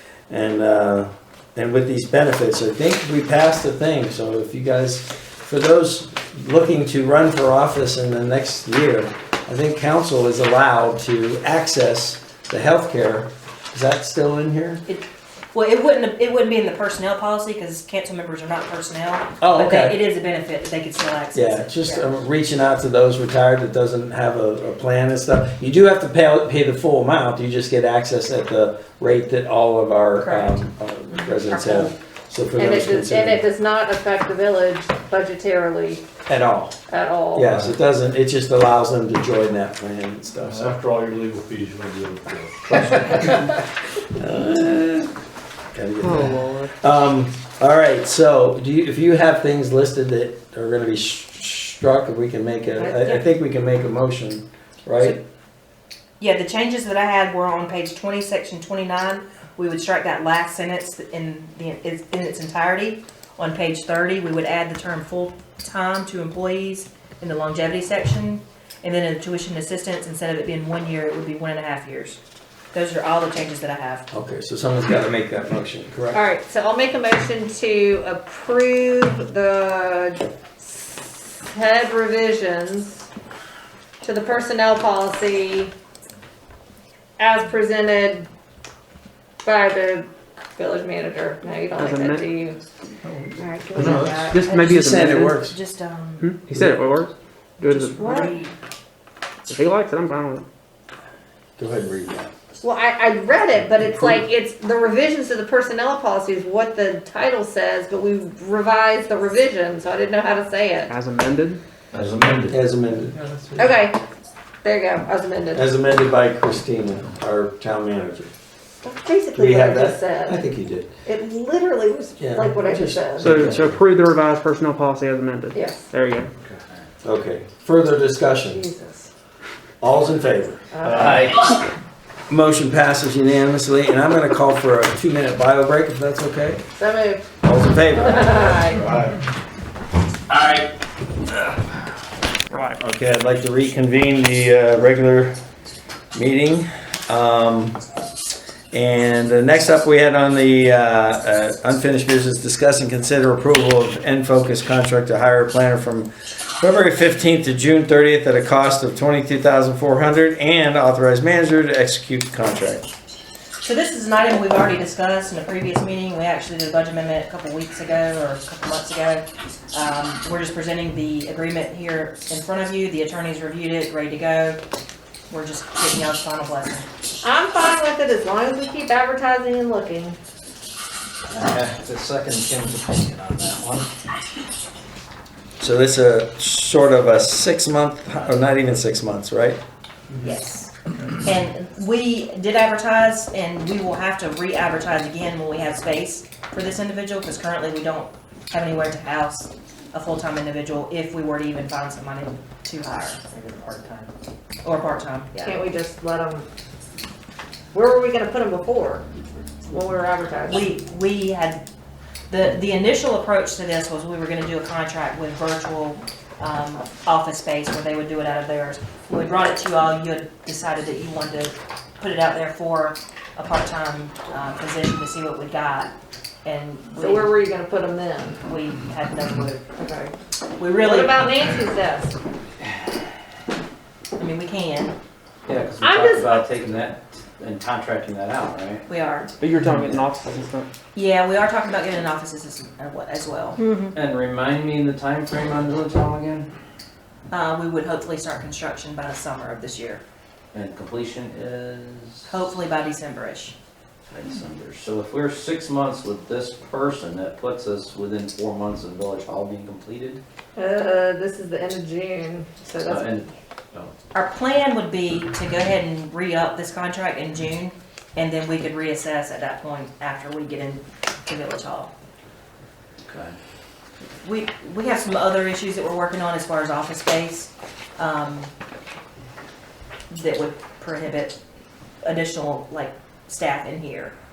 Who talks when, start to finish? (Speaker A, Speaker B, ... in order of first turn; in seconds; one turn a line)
Speaker A: 0.3-14.8
Speaker B: 14.9-22.1
Speaker A: 19.4-20.0
Speaker A: 21.3-33.4
Speaker C: 31.3-31.9
Speaker C: 32.6-36.0
Speaker A: 36.3-36.8
Speaker C: 36.9-37.5
Speaker A: 37.3-40.8
Speaker D: 40.4-43.5
Speaker A: 44.1-45.1
Speaker A: 45.7-55.2
Speaker E: 46.0-46.7
Speaker B: 52.8-53.2
Speaker B: 56.2-72.2
Speaker B: 72.7-74.1
Speaker A: 74.1-76.2
Speaker C: 76.1-83.0
Speaker C: 84.0-85.7
Speaker C: 87.2-88.3
Speaker C: 89.4-92.6
Speaker E: 91.8-92.2
Speaker C: 93.4-94.6
Speaker A: 93.8-95.5
Speaker E: 93.8-95.4
Speaker B: 95.4-96.3
Speaker E: 96.2-98.3
Speaker A: 96.5-96.8
Speaker B: 97.7-98.5
Speaker C: 98.0-98.3
Speaker E: 99.5-100.5
Speaker A: 101.6-102.3
Speaker C: 102.6-110.9
Speaker E: 110.9-111.6
Speaker F: 111.9-112.5
Speaker A: 112.5-113.5
Speaker C: 113.6-114.0
Speaker C: 114.6-115.7
Speaker A: 115.5-118.3
Speaker C: 118.8-120.5
Speaker A: 119.3-120.9
Speaker C: 121.0-123.5
Speaker A: 122.2-123.7
Speaker E: 123.2-126.3
Speaker C: 125.5-125.8
Speaker A: 127.0-128.6
Speaker C: 128.5-129.1
Speaker A: 129.8-131.3
Speaker C: 130.7-131.3
Speaker F: 130.9-131.3
Speaker A: 132.3-136.6
Speaker C: 136.8-137.3
Speaker A: 137.4-139.2
Speaker C: 137.9-139.0
Speaker A: 140.3-140.6
Speaker A: 142.7-145.3
Speaker A: 146.1-147.8
Speaker A: 148.7-162.9
Speaker B: 163.6-174.6
Speaker B: 175.3-176.9
Speaker C: 177.2-180.2
Speaker F: 181.3-183.9
Speaker A: 185.6-189.6
Speaker B: 190.2-190.7
Speaker B: 191.2-203.2
Speaker F: 203.3-204.0
Speaker B: 204.6-205.6
Speaker C: 205.4-206.5
Speaker C: 207.7-209.1
Speaker C: 209.6-210.7
Speaker B: 210.5-211.7
Speaker B: 212.3-225.9
Speaker B: 226.4-227.4
Speaker C: 227.0-228.4
Speaker B: 228.4-229.6
Speaker C: 229.8-230.1
Speaker B: 230.6-231.4
Speaker C: 230.8-232.2
Speaker B: 234.2-234.9
Speaker F: 235.5-238.8
Speaker C: 235.8-236.4
Speaker B: 238.9-239.3
Speaker E: 239.4-240.7
Speaker B: 240.9-243.6
Speaker C: 243.6-243.9
Speaker F: 243.9-246.5
Speaker B: 247.3-250.0
Speaker F: 250.5-252.3
Speaker B: 252.3-253.5
Speaker F: 254.1-260.2
Speaker C: 260.6-263.2
Speaker F: 262.9-263.9
Speaker B: 264.1-271.9
Speaker F: 273.1-273.4
Speaker B: 274.2-278.5
Speaker B: 280.1-281.4
Speaker B: 282.0-284.1